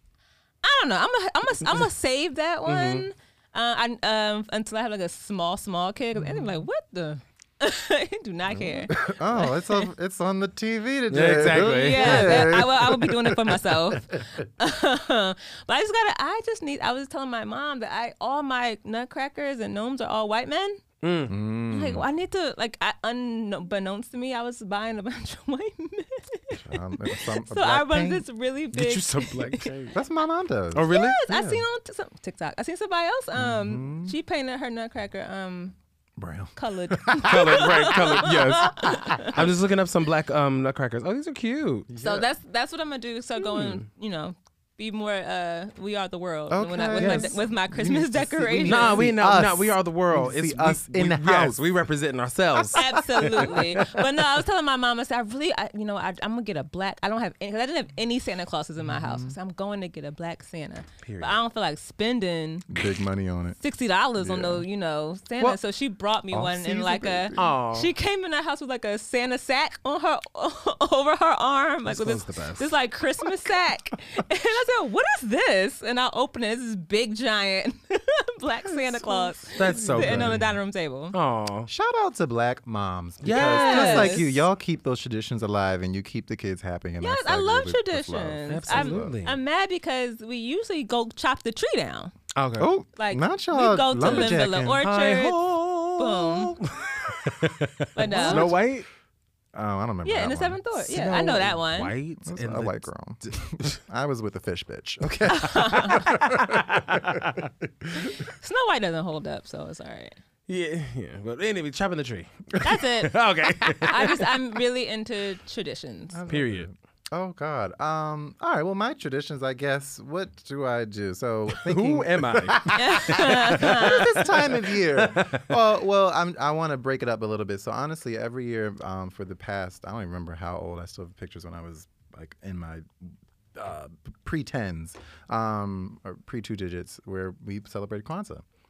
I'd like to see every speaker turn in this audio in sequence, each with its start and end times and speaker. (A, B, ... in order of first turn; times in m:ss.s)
0:00.6-0:09.9 A
0:02.7-0:03.1 B
0:06.2-0:06.5 C
0:08.9-0:14.2 C
0:11.1-0:12.6 B
0:11.6-0:20.8 A
0:21.0-0:21.4 B
0:21.3-0:22.1 C
0:21.7-0:29.8 A
0:26.5-0:28.3 C
0:28.7-0:30.0 B
0:29.9-0:31.6 C
0:30.7-0:31.3 B
0:30.9-0:35.8 A
0:33.4-0:34.2 C
0:36.2-0:39.5 C
0:36.6-0:39.4 A
0:37.1-0:41.9 B
0:41.9-0:42.3 C
0:42.0-0:49.1 A
0:43.4-0:43.8 B
0:46.5-0:51.6 C
0:47.0-0:47.4 B
0:48.6-0:53.8 B
0:52.6-0:53.8 C
0:52.7-1:02.8 A
0:58.9-0:59.3 C
1:01.0-1:01.4 B
1:02.7-1:03.6 C
1:03.6-1:21.2 A
1:04.2-1:04.7 C
1:06.3-1:07.6 C
1:07.4-1:07.9 B
1:11.9-1:12.7 B
1:18.7-1:20.6 C
1:19.6-1:20.4 B
1:21.1-1:21.7 B
1:21.7-1:29.2 C
1:23.2-1:24.4 B
1:23.3-1:24.3 A
1:27.0-1:32.1 A
1:28.5-1:29.4 B
1:32.4-1:32.7 B
1:32.6-1:34.8 C
1:33.0-1:36.6 A
1:34.0-1:38.9 B
1:38.0-1:38.6 A
1:38.1-1:38.7 C
1:39.5-1:40.6 C
1:40.0-1:41.9 A
1:40.8-1:43.8 B
1:42.3-1:48.1 C
1:45.3-1:46.1 A
1:45.6-1:47.5 B
1:48.0-1:50.2 A
1:50.5-1:54.3 B
1:52.6-1:53.2 A
1:53.8-1:56.2 A
1:56.1-2:12.9 C
1:56.3-1:56.7 B
2:01.5-2:05.6 B
2:02.7-2:04.1 A
2:13.6-2:18.4 C